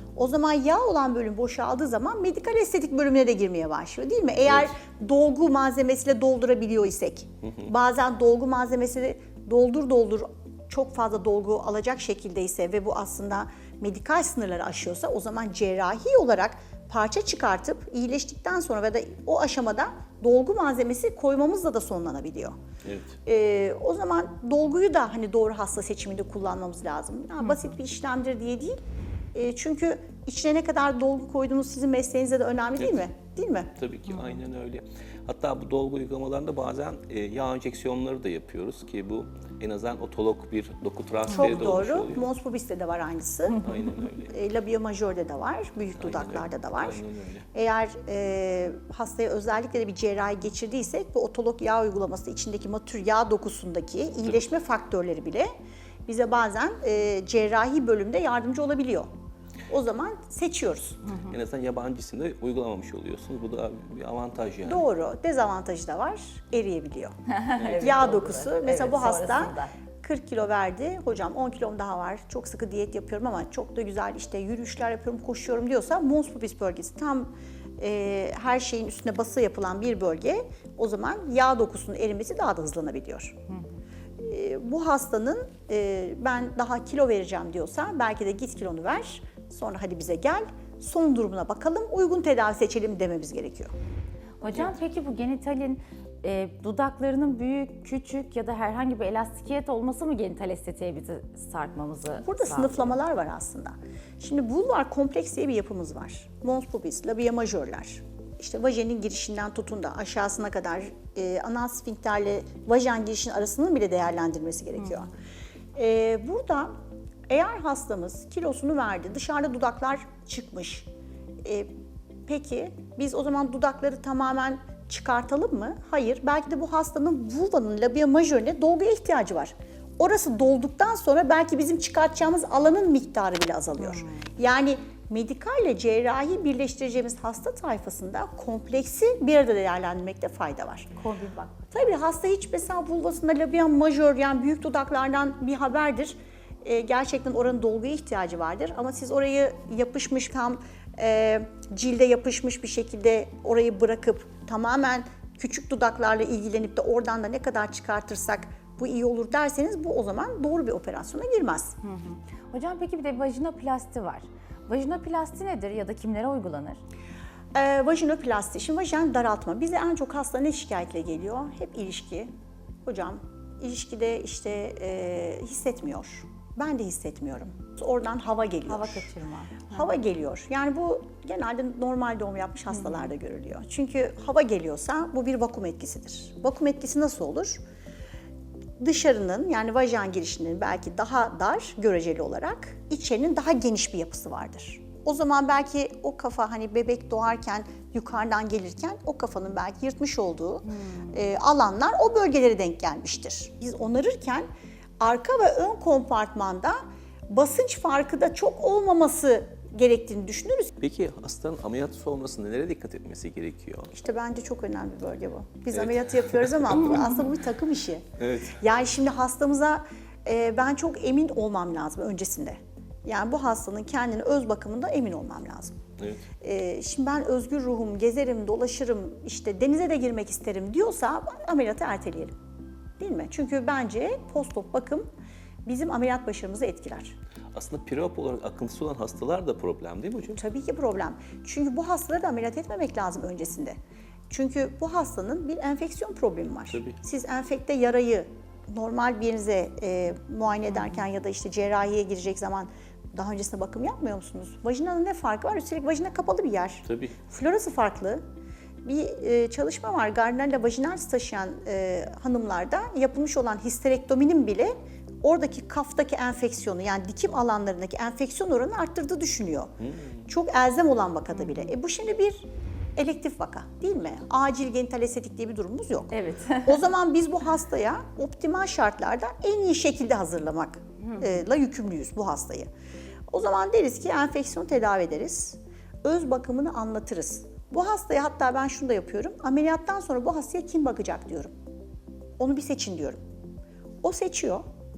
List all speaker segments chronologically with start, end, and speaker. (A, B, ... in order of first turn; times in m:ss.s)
0:00.2-0:22.6 A
0:04.4-0:04.7 B
0:22.8-0:23.1 B
0:23.3-0:28.8 A
0:29.3-0:33.7 A
0:33.8-0:42.3 B
0:41.3-0:43.6 A
0:43.5-0:43.9 C
0:43.6-0:44.3 B
0:44.3-0:47.0 A
0:46.0-0:47.5 B
0:47.5-0:55.5 A
0:56.1-0:59.1 A
0:59.7-1:01.0 A
1:01.0-1:01.3 C
1:01.3-1:04.9 B
1:04.6-1:07.1 A
1:07.3-1:09.7 C
1:07.8-1:23.4 A
1:24.2-1:33.7 A
1:34.4-1:43.0 C
1:42.2-1:55.1 A
1:55.8-1:56.7 A
1:57.3-2:00.9 A
2:01.4-2:01.7 A
2:02.3-2:20.9 A
2:13.8-2:14.3 C
2:21.0-2:21.7 C
2:21.7-2:41.8 A
2:41.8-2:46.8 C
2:47.6-2:52.3 A
2:52.8-2:59.0 A
2:58.7-2:59.9 C
2:59.7-3:07.6 A
3:02.8-3:03.1 C
3:08.8-3:24.5 A
3:20.6-3:21.2 C
3:25.0-3:30.7 A
3:30.8-3:33.9 B
3:33.9-3:38.0 A
3:35.8-3:37.0 B
3:36.8-3:37.3 C
3:38.2-3:38.6 B
3:38.6-3:45.8 A
3:46.0-3:46.3 B
3:46.4-3:52.3 A
3:53.0-3:55.1 A
3:55.7-3:57.2 A
3:57.5-4:00.4 B
4:00.4-4:03.8 A
4:04.3-4:18.2 A
4:06.7-4:07.0 B
4:16.8-4:17.2 B
4:18.8-4:29.7 A
4:29.8-4:30.1 B
4:30.3-4:36.1 A
4:31.4-4:31.7 C
4:36.1-4:36.8 C
4:36.6-4:42.7 A
4:41.0-4:41.3 C
4:43.3-4:51.5 A
4:52.4-4:53.2 A
4:54.0-4:54.6 A